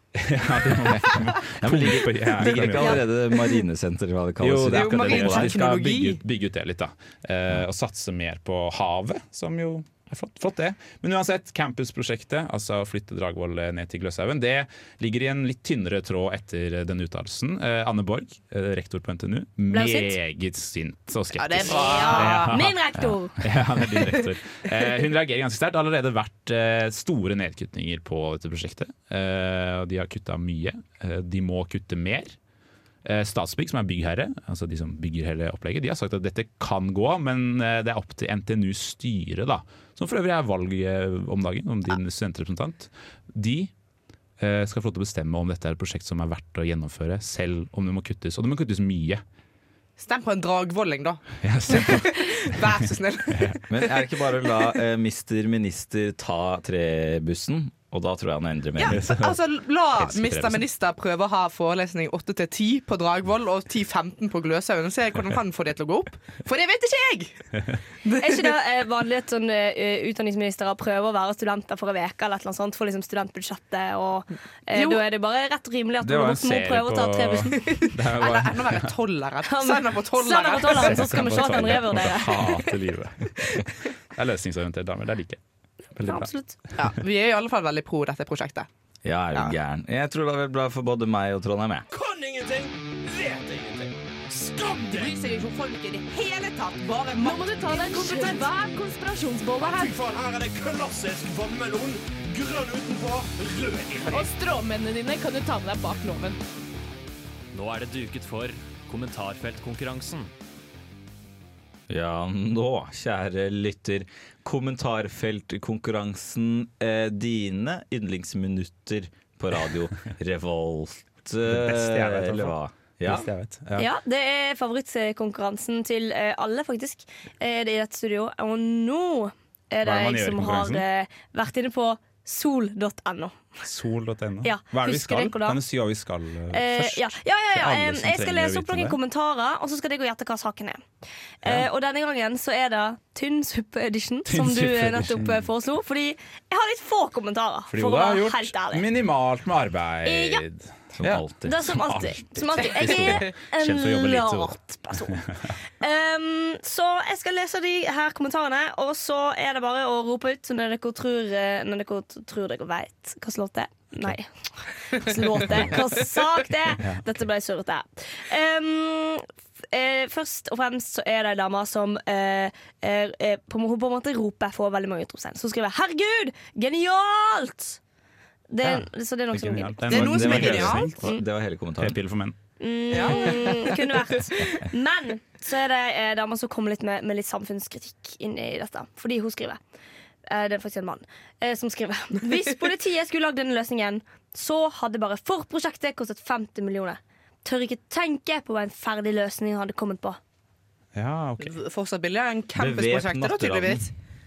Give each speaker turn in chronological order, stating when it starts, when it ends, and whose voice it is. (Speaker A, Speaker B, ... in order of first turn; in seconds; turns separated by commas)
Speaker A: 0.1-3.0, Speaker B: 0.9-5.6, Speaker A: 4.4-32.3, Speaker C: 4.7-6.2, Speaker D: 19.7-20.2, Speaker C: 21.4-22.5, Speaker D: 21.6-23.4, Speaker A: 33.0-43.7, Speaker A: 44.4-49.2, Speaker C: 50.0-53.6, Speaker A: 51.4-52.6, Speaker B: 53.7-59.0, Speaker C: 58.7-68.5, Speaker A: 58.9-59.4, Speaker A: 60.0-60.7, Speaker D: 68.2-77.5, Speaker C: 74.7-75.0, Speaker A: 76.0-78.9, Speaker C: 77.6-81.1, Speaker D: 79.5-82.4, Speaker A: 80.6-85.4, Speaker A: 86.0-86.3, Speaker D: 86.0-86.5, Speaker C: 86.8-88.7, Speaker B: 89.0-91.8, Speaker E: 91.9-95.2, Speaker C: 94.9-98.5, Speaker F: 97.3-99.5, Speaker E: 99.5-104.5, Speaker F: 104.2-106.1, Speaker G: 107.5-110.3, Speaker B: 111.9-123.3, Speaker A: 121.4-123.9, Speaker D: 123.8-133.4, Speaker A: 129.8-130.8, Speaker A: 133.6-139.0, Speaker D: 134.4-135.6, Speaker D: 136.5-140.8, Speaker D: 141.4-148.8, Speaker A: 144.3-145.4, Speaker A: 147.7-154.6, Speaker D: 150.1-150.4, Speaker B: 151.0-151.7, Speaker D: 151.4-155.2, Speaker C: 152.6-153.3, Speaker A: 155.1-155.4, Speaker D: 155.8-164.3, Speaker D: 164.9-177.8, Speaker A: 166.8-167.0, Speaker D: 178.5-180.4, Speaker A: 179.3-181.0, Speaker C: 179.9-180.9, Speaker B: 179.9-182.0, Speaker A: 181.8-182.3, Speaker D: 182.6-189.6, Speaker C: 182.9-183.8, Speaker D: 190.3-200.2, Speaker A: 200.9-201.6, Speaker C: 201.4-203.9, Speaker B: 202.6-203.8